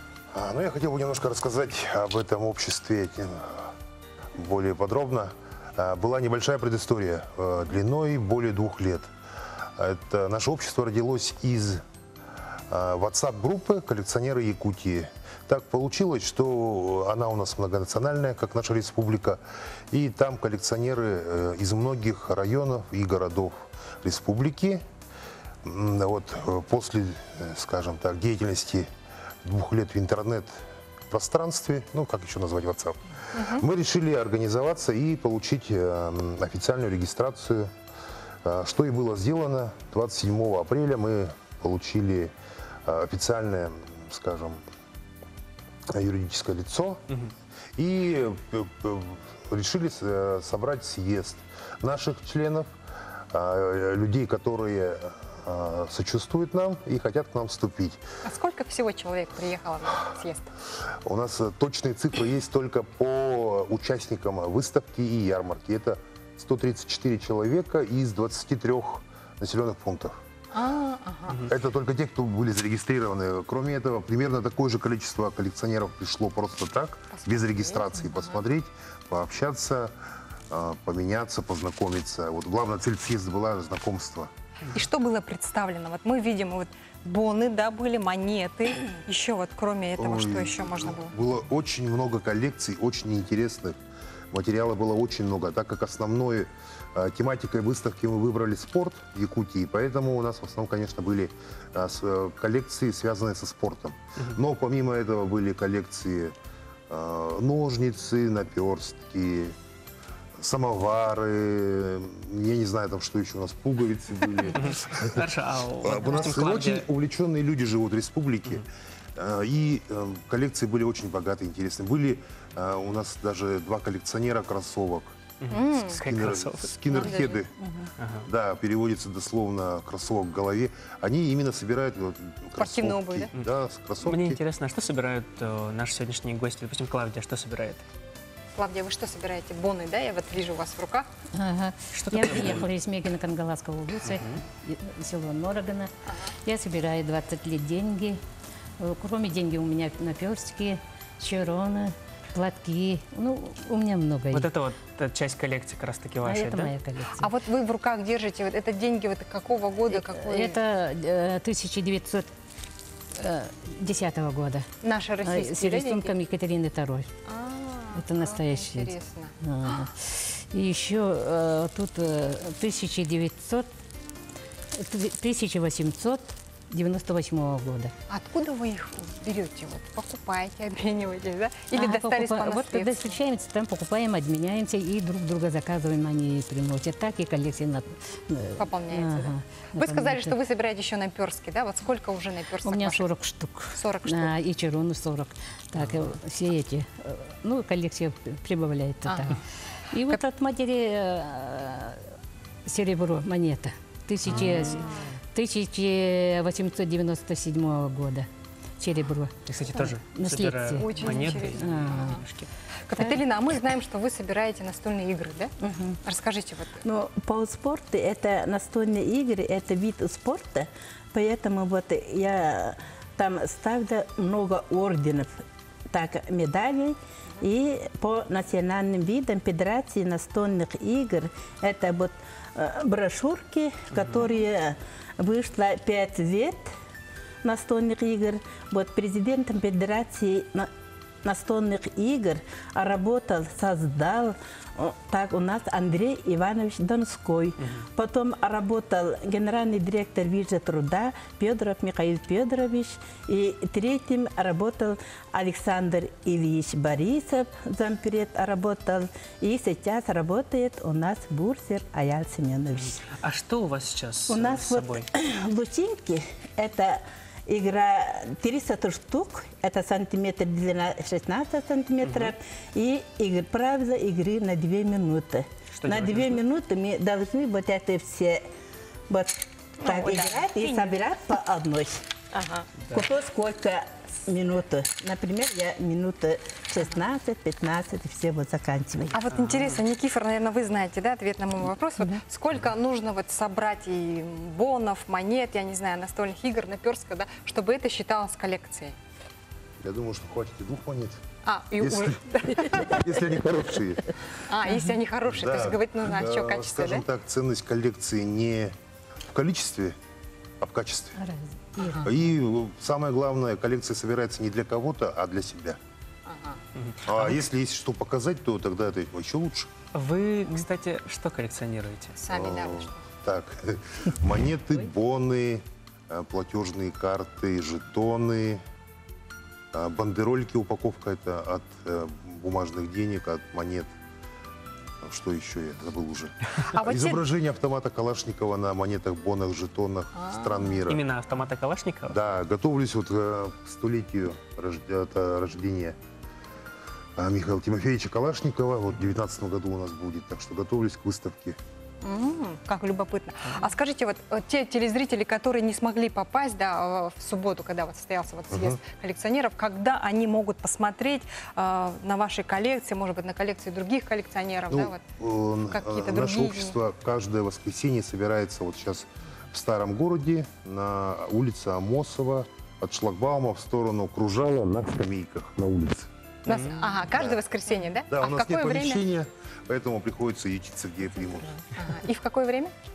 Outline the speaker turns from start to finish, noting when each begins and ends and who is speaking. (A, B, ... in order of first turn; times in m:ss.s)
0:00.3-0:03.7 A
0:04.4-0:09.1 A
0:09.8-0:11.8 A
0:12.7-0:24.8 A
0:25.6-0:28.9 A
0:29.4-0:37.7 A
0:33.3-0:33.6 B
0:38.4-0:42.3 A
0:42.8-0:44.6 A
0:45.9-0:47.0 A
0:47.8-0:52.7 A
0:53.3-0:58.0 A
0:58.2-1:00.5 B
1:01.0-1:10.2 A
1:10.5-1:11.4 B
1:11.4-1:19.9 A
1:17.1-1:18.3 B
1:20.5-1:24.3 A
1:24.7-1:31.1 B
1:30.0-1:33.8 A
1:34.3-1:46.4 A
1:46.9-1:49.5 A
1:50.4-1:55.2 A
1:54.5-1:56.9 C
1:55.8-2:05.2 A
2:05.4-2:06.8 C
2:05.5-2:06.0 B
2:06.0-2:07.6 A
2:06.9-2:07.4 B
2:08.0-2:08.3 C
2:08.2-2:14.4 A
2:12.6-2:13.3 B
2:13.4-2:17.8 C
2:18.5-2:21.1 B
2:21.3-2:25.9 D
2:21.9-2:22.6 C
2:24.0-2:24.4 C
2:26.4-2:28.2 D
2:28.8-2:34.5 D
2:34.3-2:36.7 C
2:36.3-2:37.3 D
2:37.1-2:40.6 B
2:39.9-2:42.3 D
2:43.1-2:44.7 D
2:44.8-2:46.1 B
2:45.2-2:47.1 D
2:47.2-2:49.9 B
2:47.9-2:53.7 D
2:54.7-2:57.9 D
2:58.1-3:03.2 B
3:01.7-3:10.4 D
3:08.6-3:13.1 B
3:12.6-3:19.4 D
3:13.7-3:14.3 B
3:19.0-3:19.4 B
3:19.9-3:22.1 D
3:22.6-3:28.3 D
3:24.2-3:24.9 C
3:28.8-3:32.2 D
3:29.5-3:32.5 C
3:30.8-3:32.2 B
3:32.9-3:36.8 B
3:36.8-3:56.7 E
3:53.9-3:54.3 C
3:57.4-4:00.7 E
4:01.2-4:23.1 E
4:22.8-4:25.0 C
4:24.3-4:38.4 E
4:32.0-4:32.3 C
4:35.7-4:36.4 C
4:39.1-4:42.0 E
4:39.8-4:41.1 B
4:42.3-4:42.8 B
4:42.9-4:49.2 E
4:49.1-4:59.0 B
4:49.3-4:49.8 C
4:59.8-5:01.2 A
5:01.4-5:03.1 B
5:01.8-5:04.2 A
5:04.3-5:07.0 B
5:05.3-5:08.7 A
5:09.3-5:10.0 A
5:10.6-5:11.2 A
5:11.2-5:12.0 D
5:11.8-5:12.1 B
5:12.0-5:15.8 A
5:16.2-5:16.6 B
5:16.8-5:17.4 C
5:17.0-5:19.7 A
5:19.9-5:22.2 C
5:22.2-5:23.1 B
5:22.3-5:28.6 A
5:29.7-5:33.9 A
5:35.0-5:41.0 A
5:36.6-5:37.2 B
5:40.1-5:40.8 B
5:40.9-5:42.2 C
5:42.1-5:46.0 A
5:47.2-5:51.6 A
5:52.0-6:05.0 B
5:58.5-5:58.8 A
6:04.7-6:16.1 A
6:05.7-6:06.7 B
6:16.4-6:19.0 B
6:16.5-6:16.9 C
6:17.1-6:17.4 A
6:18.1-6:21.6 A
6:21.7-6:22.7 B